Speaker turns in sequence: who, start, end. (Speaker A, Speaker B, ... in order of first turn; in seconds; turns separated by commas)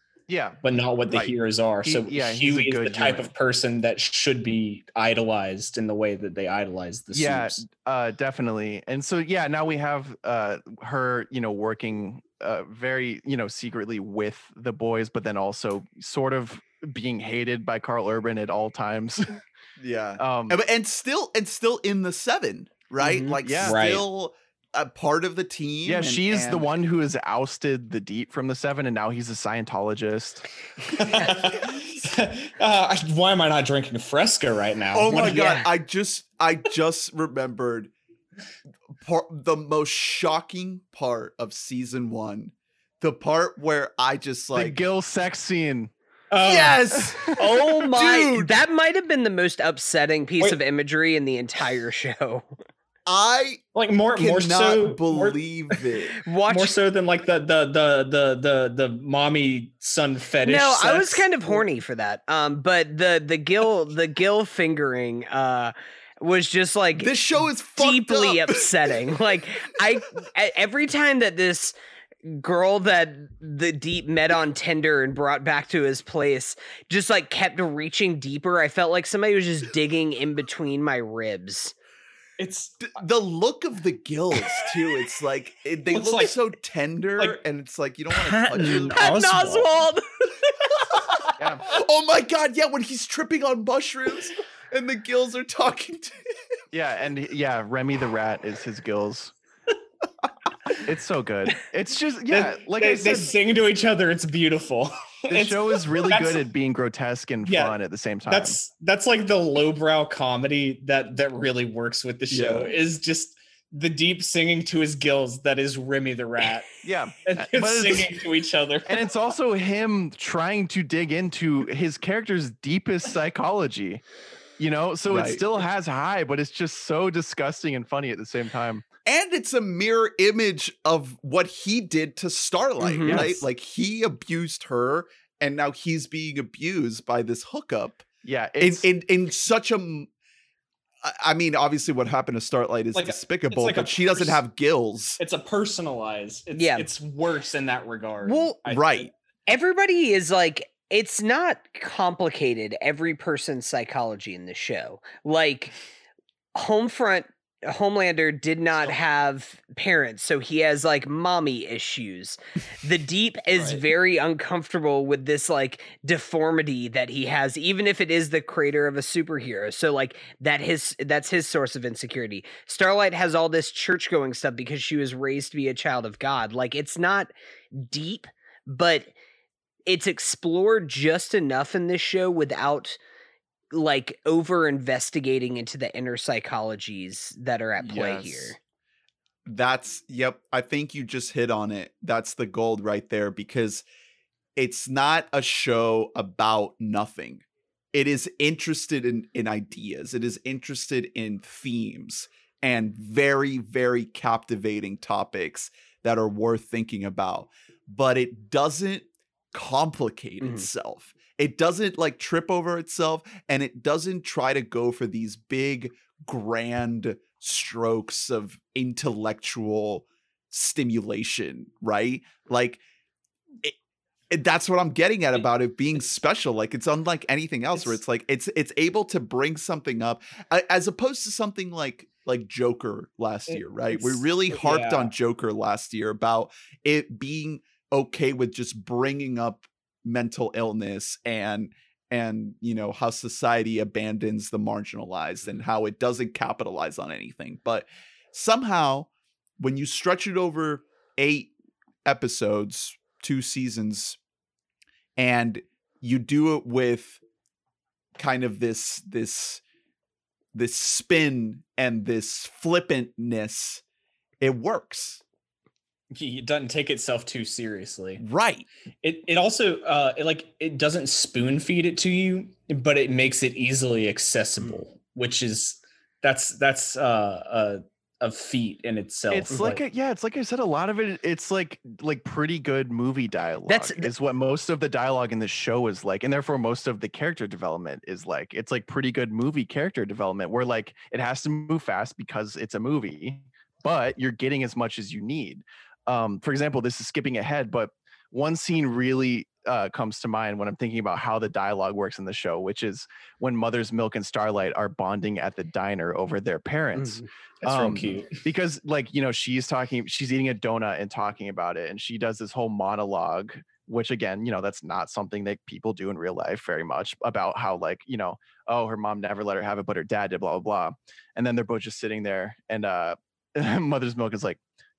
Speaker A: 0.3-3.3, Speaker B: 0.6-7.6, Speaker A: 7.1-19.4, Speaker C: 19.8-26.7, Speaker A: 20.2-20.6, Speaker B: 23.0-24.1, Speaker A: 23.4-23.8, Speaker A: 25.9-30.5, Speaker B: 30.9-35.5, Speaker C: 34.9-37.9, Speaker D: 35.1-35.7, Speaker C: 39.0-44.8, Speaker A: 44.5-45.9, Speaker B: 46.3-47.1, Speaker C: 46.4-48.5, Speaker D: 47.4-52.5, Speaker C: 53.1-56.2, Speaker B: 53.7-55.8, Speaker D: 56.2-56.8, Speaker B: 56.5-61.3, Speaker D: 60.4-67.1, Speaker C: 67.0-68.9, Speaker D: 67.8-81.7, Speaker B: 82.4-82.9, Speaker C: 82.8-89.0, Speaker B: 84.4-84.7, Speaker B: 85.9-86.4, Speaker B: 88.1-89.8, Speaker D: 88.9-90.3, Speaker B: 91.2-91.7, Speaker A: 91.4-91.6, Speaker C: 91.7-96.3, Speaker A: 96.7-99.3, Speaker A: 100.8-103.3, Speaker B: 102.3-106.4, Speaker A: 105.3-108.6, Speaker B: 107.5-107.8, Speaker B: 108.3-119.1, Speaker C: 112.3-112.7, Speaker A: 116.8-118.1, Speaker A: 118.9-124.0, Speaker A: 124.6-128.8, Speaker C: 125.1-125.4, Speaker C: 129.1-138.1, Speaker D: 132.8-133.2, Speaker A: 138.2-138.9, Speaker C: 138.6-140.1, Speaker C: 141.0-145.2, Speaker B: 142.9-144.4, Speaker B: 145.2-149.1, Speaker D: 146.5-146.9, Speaker D: 148.2-148.6, Speaker C: 148.7-149.1, Speaker D: 149.5-155.7, Speaker D: 156.6-179.1, Speaker D: 179.9-183.0, Speaker D: 183.7-188.6, Speaker C: 187.8-188.5, Speaker C: 189.4-193.8, Speaker C: 194.6-222.8, Speaker C: 224.3-251.5, Speaker B: 233.5-235.1, Speaker C: 252.1-254.2, Speaker C: 255.2-257.2, Speaker C: 258.2-259.6, Speaker C: 260.5-263.8, Speaker C: 264.4-265.2, Speaker B: 266.1-268.2, Speaker C: 268.2-268.7, Speaker B: 269.0-279.8, Speaker A: 279.3-324.6, Speaker D: 283.7-284.1, Speaker D: 306.9-307.3, Speaker B: 307.6-308.4